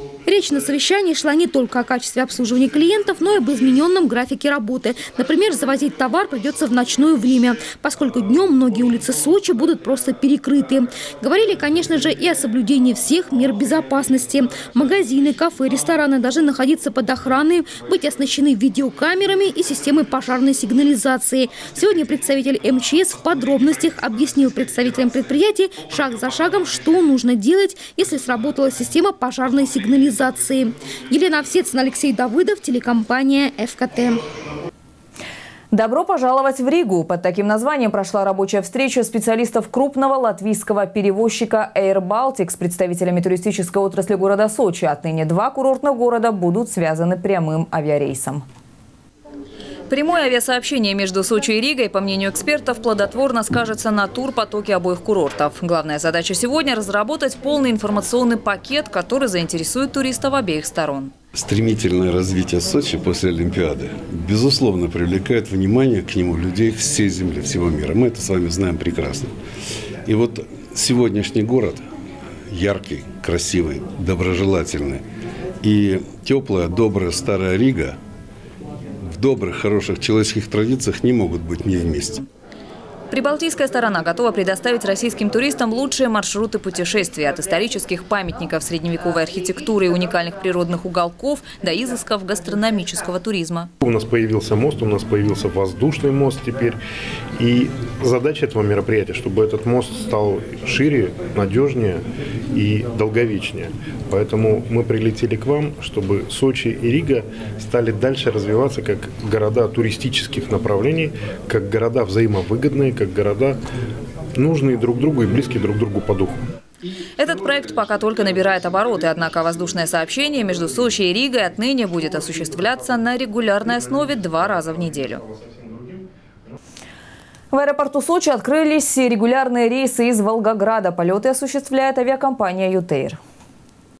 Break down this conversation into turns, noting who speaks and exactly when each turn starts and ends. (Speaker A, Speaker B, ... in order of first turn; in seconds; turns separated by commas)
Speaker A: 0.2-34.2, Speaker B: 35.7-48.4, Speaker B: 49.9-61.1, Speaker C: 61.3-69.3, Speaker C: 70.0-71.8, Speaker C: 72.5-75.0, Speaker C: 75.6-78.0, Speaker C: 79.1-82.2, Speaker B: 83.1-93.7, Speaker D: 93.8-96.8, Speaker D: 97.4-102.0, Speaker D: 102.5-113.6, Speaker D: 114.4-116.4, Speaker B: 117.2-125.2, Speaker D: 125.6-126.0, Speaker B: 127.5-133.2